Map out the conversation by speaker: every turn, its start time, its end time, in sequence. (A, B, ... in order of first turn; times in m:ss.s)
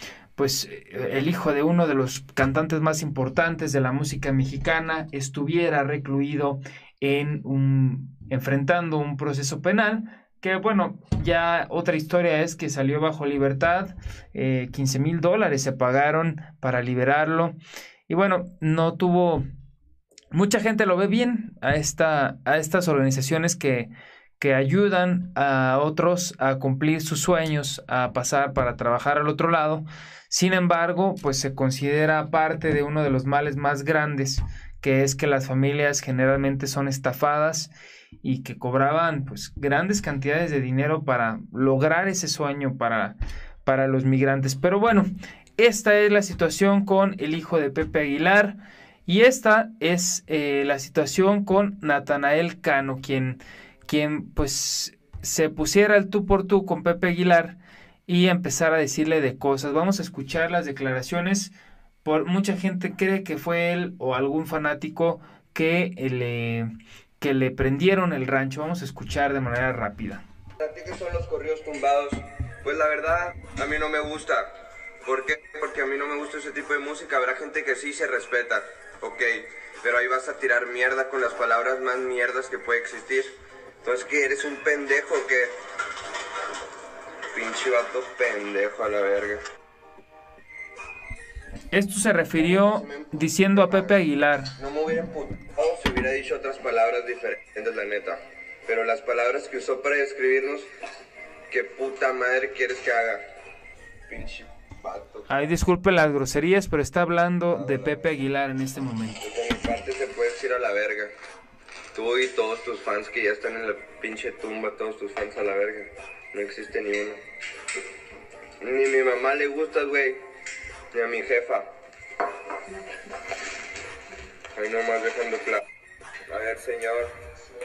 0:00.4-0:17.6 A
0:18.1-0:19.4 A
0:20.3-0:37.7 A
0:38.2-1:01.5 A
1:02.0-1:10.2 A
1:10.6-1:14.5 B
1:15.0-1:23.3 B
1:23.8-1:25.5 B
1:27.3-1:29.4 B
1:31.7-1:34.5 A
1:32.4-1:34.0 B
1:34.6-1:40.7 B
1:41.5-1:43.2 B
1:44.1-1:45.5 B
1:45.3-1:49.2 A
1:47.5-1:48.1 B
1:49.2-1:51.1 B
1:51.9-1:57.2 B
1:58.6-2:00.2 B
2:00.9-2:01.6 B
2:04.6-2:05.6 B
2:06.3-2:07.1 B